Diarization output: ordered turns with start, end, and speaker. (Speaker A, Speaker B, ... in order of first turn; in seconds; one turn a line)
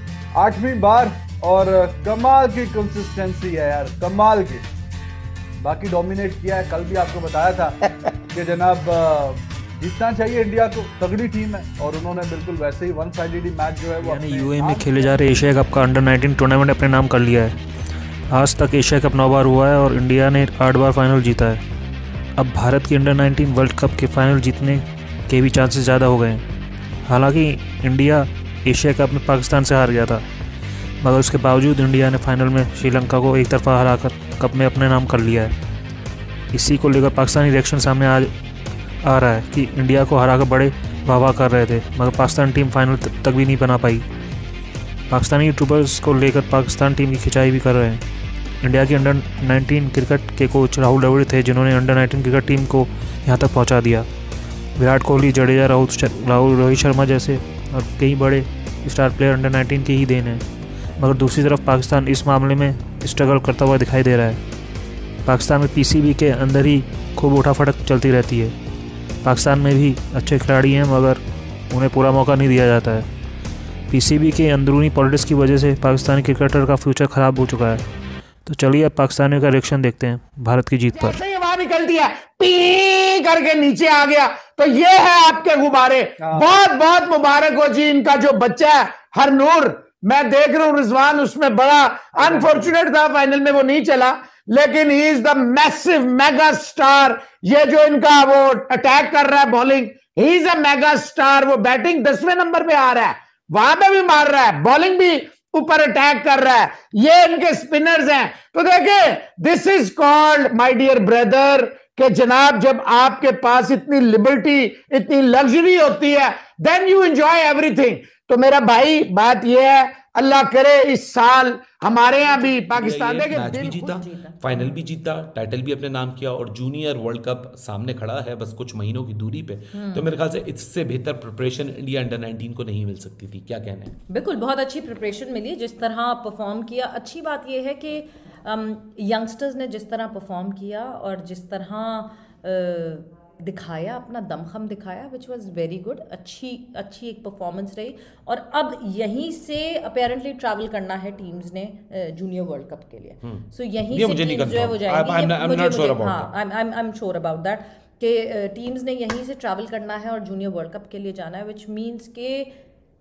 Speaker A: 0.3-4.7
Speaker A: 5.6-7.8
Speaker A: 8.3-15.2
Speaker B: 14.0-17.6
Speaker B: 18.3-21.6
Speaker B: 22.4-26.4
Speaker B: 27.1-30.2
Speaker B: 31.0-35.5
Speaker B: 36.5-38.3
Speaker B: 39.0-44.1
Speaker B: 45.1-48.0
Speaker B: 48.6-54.1
Speaker B: 54.8-60.4
Speaker B: 61.0-64.4
Speaker B: 65.2-68.6
Speaker B: 69.2-73.1
Speaker B: 73.9-77.8
Speaker B: 78.5-81.2
Speaker C: 80.9-123.8
Speaker A: 86.2-86.6
Speaker A: 92.2-92.8
Speaker D: 122.2-122.9
Speaker E: 122.7-133.9
Speaker D: 123.4-124.8
Speaker D: 129.7-130.1
Speaker D: 134.1-162.5
Speaker E: 153.2-156.3